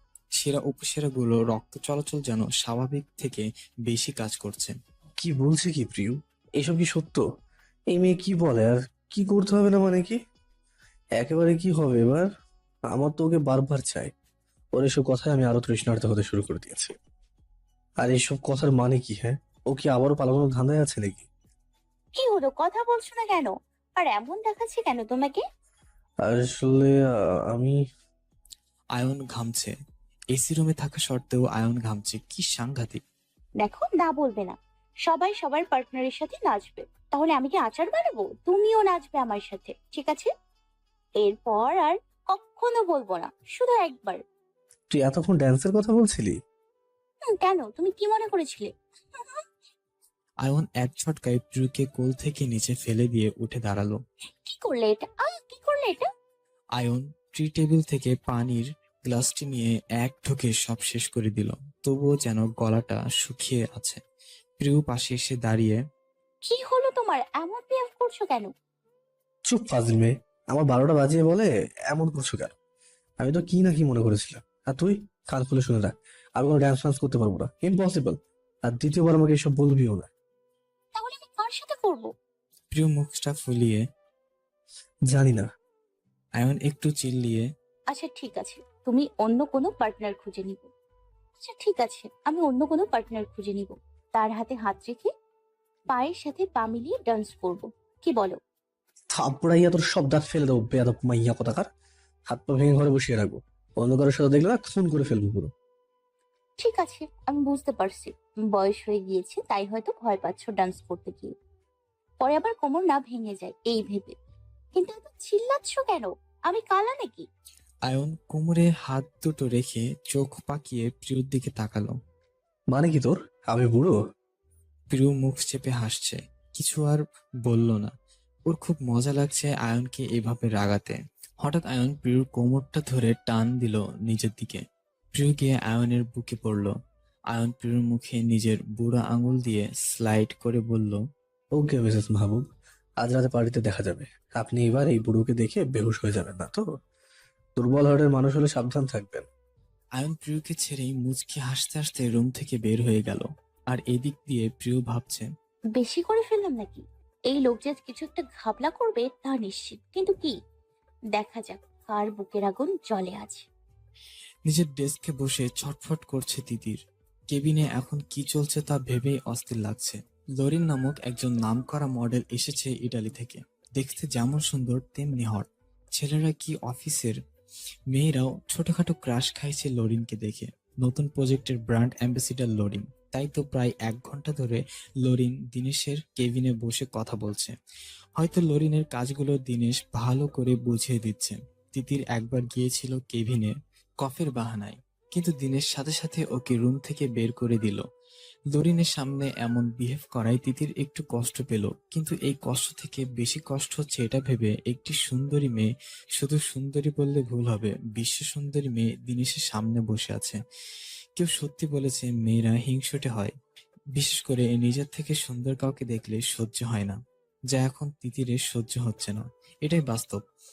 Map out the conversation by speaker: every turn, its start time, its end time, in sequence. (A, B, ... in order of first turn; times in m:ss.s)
0:00.4-0:04.8 A
0:05.2-0:07.2 B
0:07.9-0:10.2 B
0:11.2-0:12.3 B
0:12.9-0:14.1 B
0:14.8-0:17.0 B
0:18.0-0:21.3 B
0:22.2-0:25.4 C
0:26.2-0:26.9 B
0:27.5-0:27.8 B
0:29.0-0:29.7 A
0:30.4-0:33.0 A
0:33.6-0:34.6 C
0:35.1-0:40.3 C
0:41.2-0:44.2 C
0:44.9-0:46.4 B
0:47.4-0:49.4 C
0:50.4-0:54.0 A
0:54.4-0:56.1 C
0:56.8-1:04.0 A
1:04.6-1:05.8 A
1:06.4-1:08.5 C
1:09.5-1:12.5 B
1:13.2-1:20.1 B
1:21.0-1:22.1 C
1:22.7-1:23.8 A
1:25.1-1:25.5 B
1:26.4-1:27.4 A
1:27.9-1:30.7 C
1:31.4-1:35.1 C
1:35.9-1:38.4 C
1:39.1-1:41.7 B
1:42.3-1:45.5 B
1:46.6-1:51.3 C
1:52.2-1:54.2 C
1:54.8-1:57.3 C
1:57.9-2:02.0 A
2:02.7-2:04.0 B
2:04.9-2:07.9 A
2:08.5-2:14.6 A
2:15.2-2:16.7 A
2:17.3-2:21.0 A
2:21.6-2:22.4 B
2:23.0-2:26.6 B
2:27.6-2:29.3 B
2:30.0-2:35.3 A
2:35.8-2:40.4 C
2:41.2-2:43.4 C
2:44.5-2:46.8 A
2:47.3-2:57.2 A
2:57.9-3:07.6 A
3:08.2-3:17.8 A
3:18.5-3:30.4 A
3:31.2-3:33.3 A
3:34.0-3:37.0 A
3:37.5-3:40.2 A